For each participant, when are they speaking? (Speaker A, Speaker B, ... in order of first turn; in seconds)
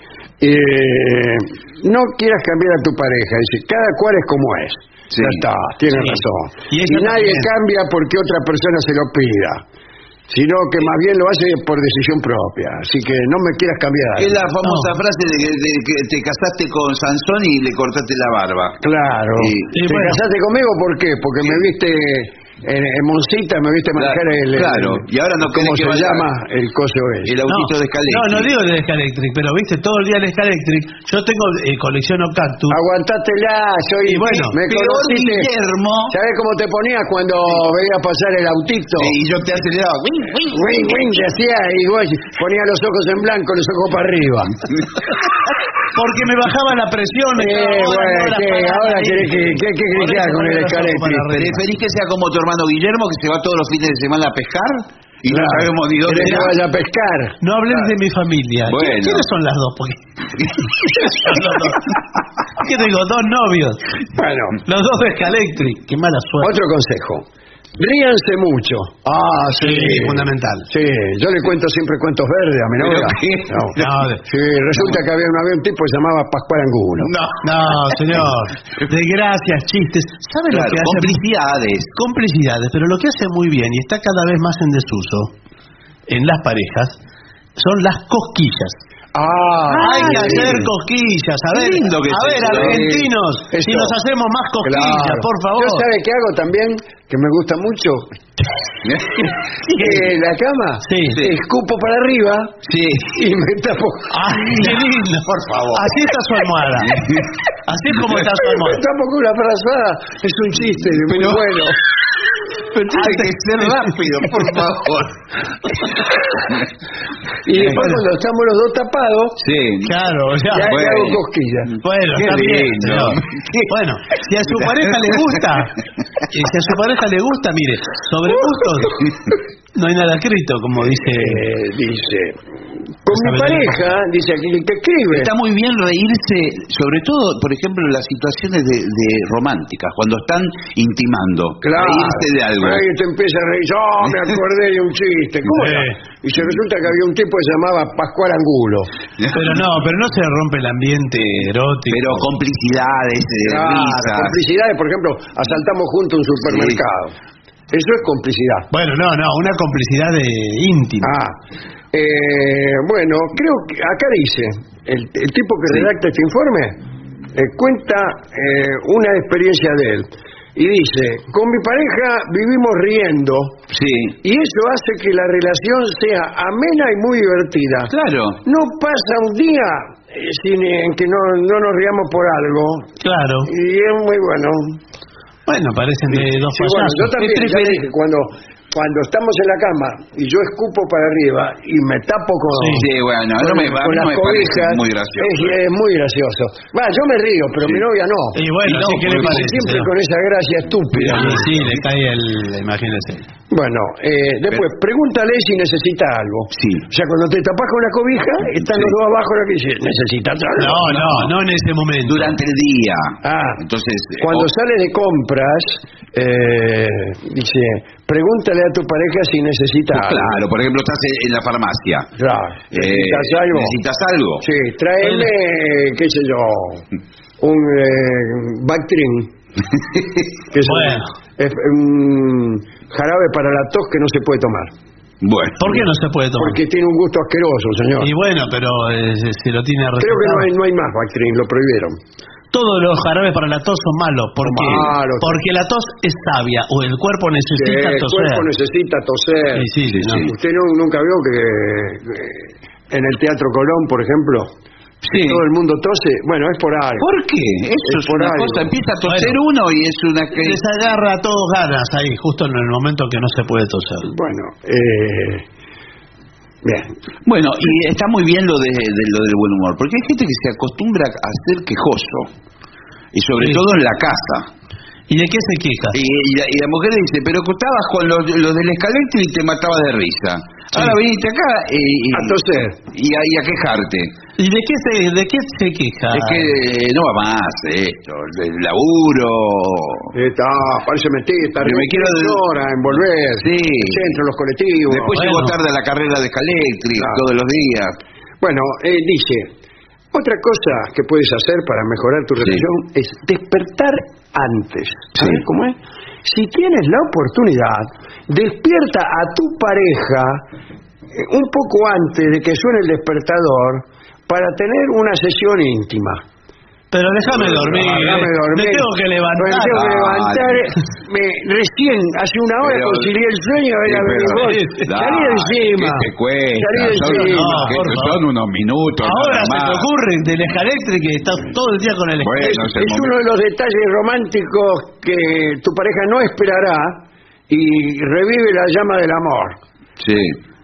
Speaker A: 0.4-9.6, 10.3-14.3, 18.8-27.4, 32.7-35.5, 36.1-39.1, 40.5-44.6, 47.4-51.4, 55.3-57.9, 64.2-64.6, 66.4-67.3, 67.8-77.1, 89.1-90.7, 92.4-94.0, 94.6-98.1, 99.7-104.8, 108.4-111.8, 117.5-119.4, 120.5-121.8, 131.0-132.4, 133.1-135.3, 141.6-148.9, 153.4-157.2, 157.7-158.7, 161.0-161.4, 161.9-166.8, 167.3-173.6, 174.2-177.9, 178.4-182.9, 183.5-184.8, 186.1-198.4, 199.0-201.5, 203.5-210.9, 213.2-213.6, 214.2-220.4, 222.2-223.8, 224.4-226.8, 227.4-229.3, 230.5-234.7, 236.4-238.1, 240.0-242.0, 244.4-245.4, 247.5-254.5, 255.1-257.1, 257.9-258.7, 264.1-265.4, 266.6-266.9, 282.1-282.8, 290.1-295.1, 297.0-297.2, 298.4-299.5, 300.1-310.4, 311.1-316.2, 317.3-327.8, 332.4-339.6
Speaker B: 5.1-5.5, 14.2-18.8, 19.4-19.7, 24.0-26.3, 27.3-28.5, 34.6-36.1, 39.0-41.2, 51.3-56.5, 58.7-59.3, 72.8-73.8, 77.0-78.0, 80.5-81.9, 89.8-90.7, 91.5-92.8, 98.8-99.9, 102.7-103.1, 104.4-105.9, 106.8-107.3, 111.1-111.6, 112.9-115.2, 119.4-119.9, 120.6-121.2, 122.1-123.7, 124.5-125.2, 135.1-142.9, 151.9-154.4, 156.5-156.8, 173.7-174.2, 177.9-178.4, 192.7-195.6, 198.7-199.4, 200.9-201.8, 206.5-206.8, 208.6-208.9, 210.9-211.3, 212.1-214.5, 219.9-222.1, 222.7-224.5, 235.2-235.6, 249.9-250.3, 255.0-255.4, 257.0-260.6, 267.2-272.3, 273.1-274.5, 275.9-284.1, 286.1-290.1, 291.6-292.4, 293.4-294.2, 294.9-297.9, 305.2-305.4, 319.7-320.7, 322.6-323.1, 323.9-329.9, 332.2-333.1, 340.0-340.4
Speaker C: 5.9-7.5, 14.6-14.9, 19.7-20.2, 27.5-32.8, 34.1-34.6, 45.9-51.6, 57.4-61.8, 62.6-63.8, 64.6-66.5, 69.6-70.7, 73.8-74.2, 77.4-81.2, 82.0-85.3, 86.1-87.0, 87.6-88.8, 89.7-95.8, 100.8-101.2, 104.1-107.1, 107.7-108.8, 112.7-113.7, 117.7-118.0, 119.8-120.7, 121.8-129.1, 129.8-131.4, 133.1-133.9, 145.4-146.0, 149.3-152.2, 158.7-161.1, 183.0-183.5, 185.5-187.8, 192.5-192.9, 198.3-199.9, 201.1-203.3, 210.6-212.3, 225.0-225.3, 230.6-231.1, 235.6-236.6, 238.0-240.5, 242.5-248.5, 249.5-250.3, 259.1-259.4, 260.3-264.1, 275.1-276.0, 284.4-286.5, 295.1-295.6, 316.9-319.9, 324.4-324.9, 327.0-328.2, 329.0-332.6